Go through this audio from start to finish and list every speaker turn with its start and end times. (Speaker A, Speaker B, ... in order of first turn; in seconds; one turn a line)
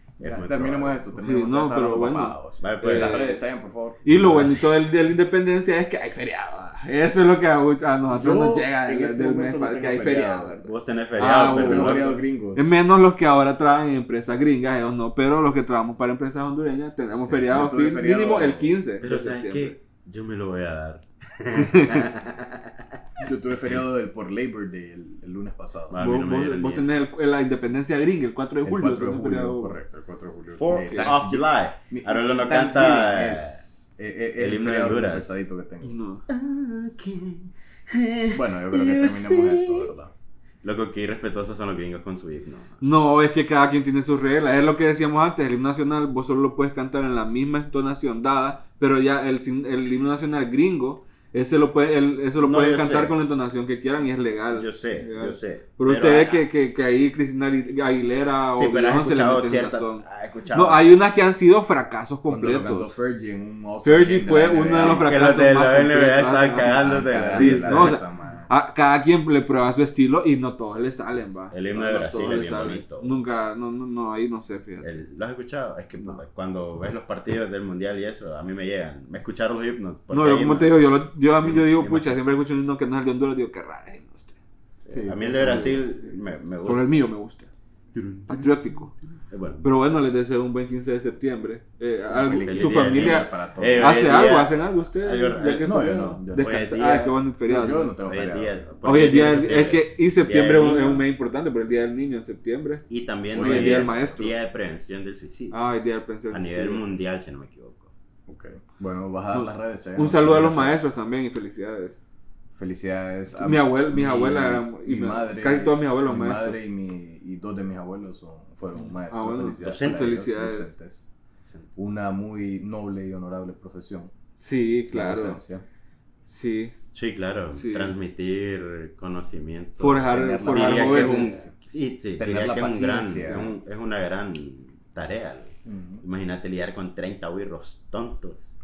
Speaker A: 0.2-1.0
Speaker B: 0.2-4.5
Speaker C: 1.1-3.4
Speaker A: 2.6-3.3
Speaker C: 4.0-19.7
Speaker B: 8.1-10.6
Speaker A: 10.6-12.1
Speaker B: 11.2-12.6
Speaker B: 17.2-18.7
Speaker A: 19.0-22.7
Speaker C: 21.6-22.1
Speaker B: 23.2-26.0
Speaker A: 25.9-26.9
Speaker C: 26.0-29.8
Speaker B: 28.6-36.0
Speaker A: 30.6-33.6
Speaker C: 30.7-31.1
Speaker A: 34.4-35.4
Speaker C: 35.8-36.2
Speaker A: 36.3-39.9
Speaker B: 38.3-40.1
Speaker A: 40.6-42.8
Speaker C: 42.8-62.9
Speaker A: 52.4-53.1
Speaker A: 54.5-56.4
Speaker A: 58.6-60.9
Speaker B: 62.3-65.2
Speaker C: 63.8-74.9
Speaker A: 64.7-68.0
Speaker B: 66.8-68.5
Speaker A: 71.5-73.2
Speaker A: 74.8-80.8
Speaker C: 80.1-84.3
Speaker A: 81.4-82.2
Speaker A: 84.8-86.9
Speaker B: 84.9-85.8
Speaker C: 85.4-85.8
Speaker C: 86.6-87.5
Speaker A: 87.9-88.5
Speaker C: 88.3-88.9
Speaker A: 89.3-89.7
Speaker C: 89.6-97.9
Speaker B: 92.1-94.1
Speaker A: 92.3-97.2
Speaker B: 95.6-96.7
Speaker B: 97.5-98.6
Speaker A: 97.7-101.0
Speaker C: 98.8-104.3
Speaker A: 102.9-105.6
Speaker B: 103.3-104.1
Speaker C: 105.5-106.8
Speaker A: 106.3-107.9
Speaker B: 108.3-110.8
Speaker C: 109.3-112.0
Speaker B: 112.5-121.0
Speaker C: 113.3-116.6
Speaker C: 118.8-120.7
Speaker A: 119.6-120.0
Speaker B: 121.8-124.1
Speaker C: 124.4-125.4
Speaker B: 124.9-125.6
Speaker C: 126.3-126.7
Speaker A: 126.9-138.5
Speaker C: 127.5-127.9
Speaker C: 129.8-131.4
Speaker B: 130.1-131.5
Speaker B: 132.2-133.5
Speaker B: 135.6-136.0